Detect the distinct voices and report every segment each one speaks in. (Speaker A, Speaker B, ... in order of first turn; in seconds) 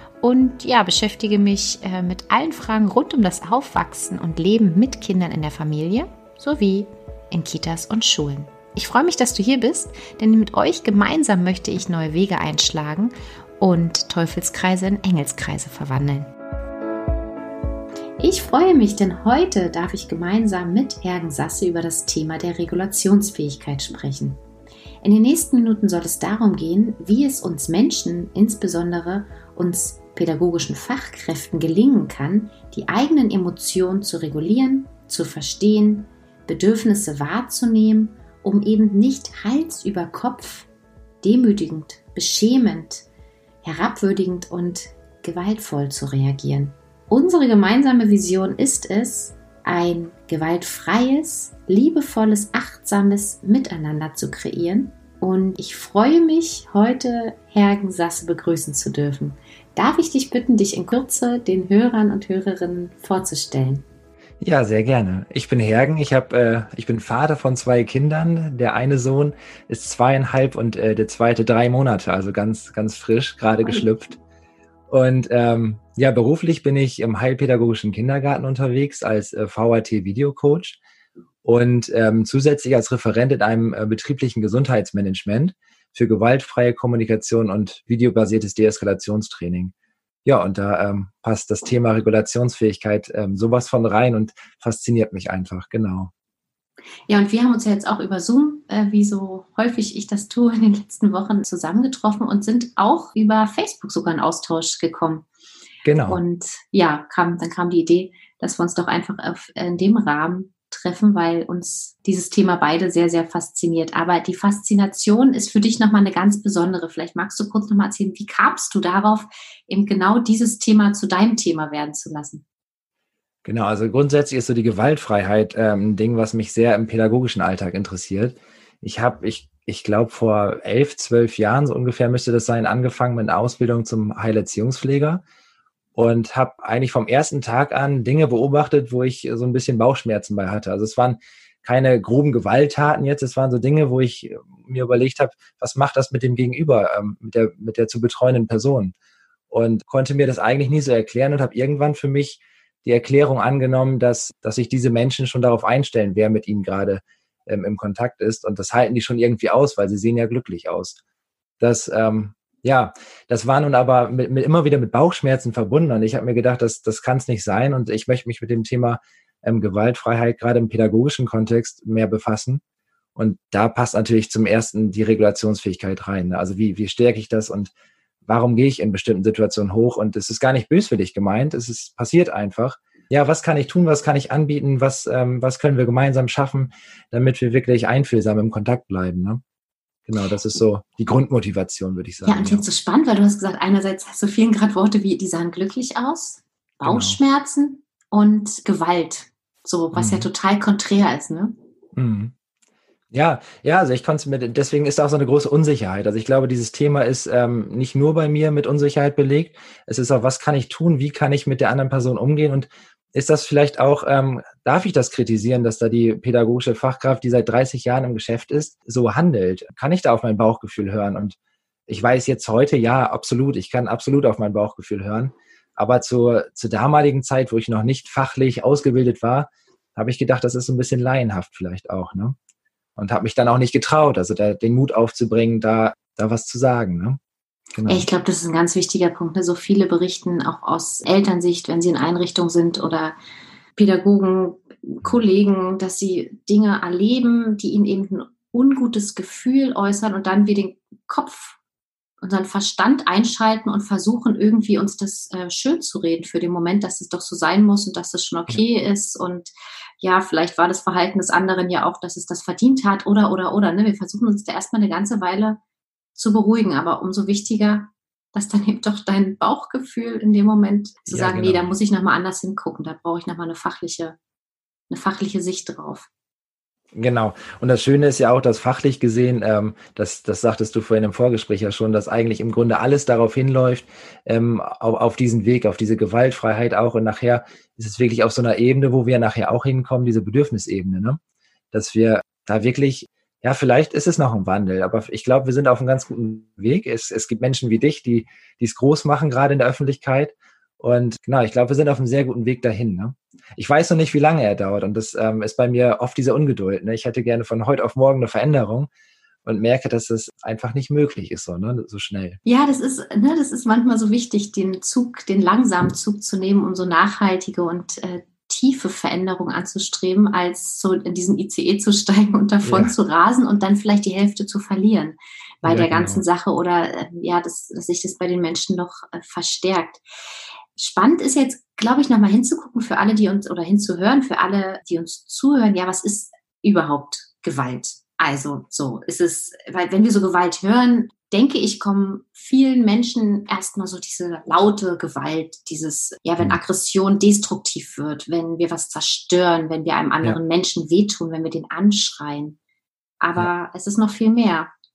Speaker A: 0.2-16.3, 18.2-24.4, 25.0-40.7, 41.2-43.1, 43.6-63.8, 97.1-105.3, 106.1-122.4, 192.2-201.6, 237.9-243.2, 243.8-251.6, 252.2-265.6, 266.1-274.1, 274.9-276.1, 312.4-330.0, 330.8-352.6, 353.2-354.7
Speaker B: 64.4-74.2, 74.9-80.8, 81.4-89.7, 90.2-96.1, 105.8-106.2, 123.4-135.2, 135.9-148.9, 149.5-160.9, 161.6-172.6, 173.2-177.7, 178.2-189.4, 190.1-192.6, 196.8-197.2, 199.9-200.3, 201.9-202.3, 203.1-221.4, 221.9-232.3, 233.0-237.2, 237.7-238.1, 271.1-271.7, 276.9-291.2, 291.7-308.9, 309.4-312.4, 322.6-322.9, 325.6-326.2